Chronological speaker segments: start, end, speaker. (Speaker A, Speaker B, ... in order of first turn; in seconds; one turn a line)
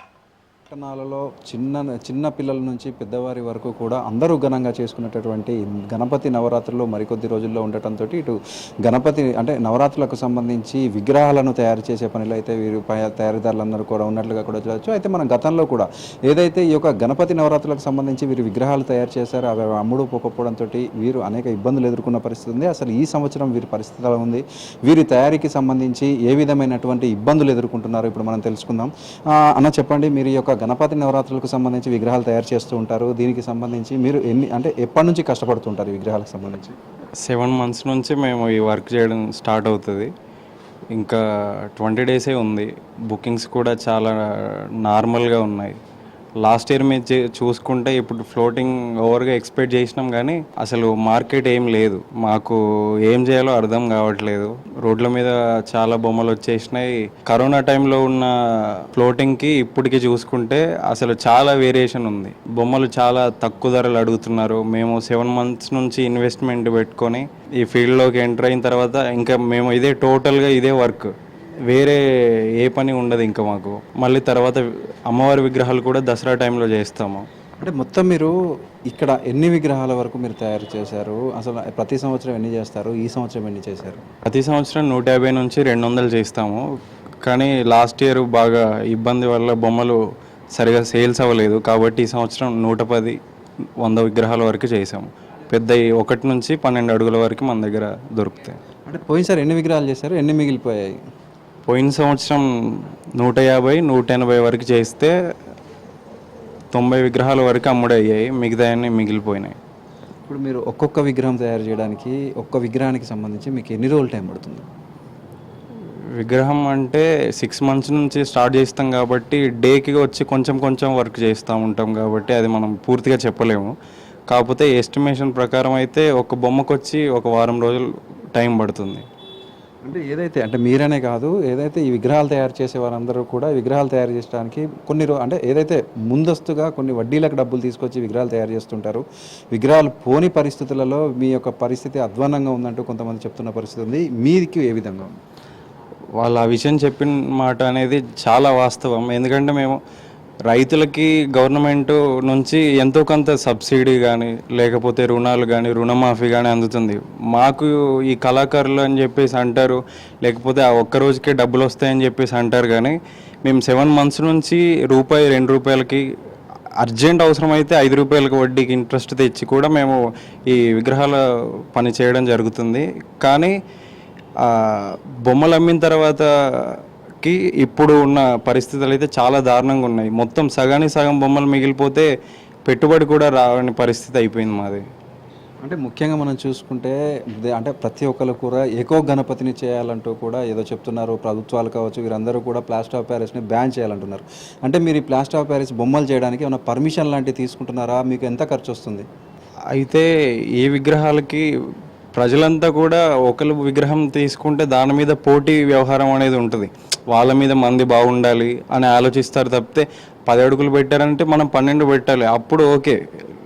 Speaker A: 0.7-36.8
Speaker B: 37.2-40.1
Speaker B: 41.8-44.2
Speaker B: 44.8-45.8
Speaker B: 46.4-58.3
Speaker B: 58.9-71.1
Speaker B: 71.7-72.0
Speaker B: 72.6-77.2
Speaker A: 77.6-78.3
Speaker A: 78.9-84.0
Speaker B: 84.2-86.6
Speaker B: 87.2-90.0
Speaker B: 90.5-93.2
Speaker B: 93.8-98.6
Speaker A: 98.9-100.9
Speaker B: 101.7-105.1
Speaker B: 106.7-109.5
Speaker A: 110.3-114.6
Speaker B: 116.2-123.7
Speaker B: 124.3-129.1
Speaker A: 129.8-145.1
Speaker B: 146.2-149.8
Speaker B: 150.5-166.0
Speaker B: 166.8-170.0
Speaker B: 170.5-171.2
Speaker B: 171.7-173.5
Speaker B: 174.4-182.1
Speaker B: 182.7-184.8
Speaker A: 185.6-199.1
Speaker B: 199.7-200.1
Speaker B: 200.6-201.4
Speaker B: 202.1-213.0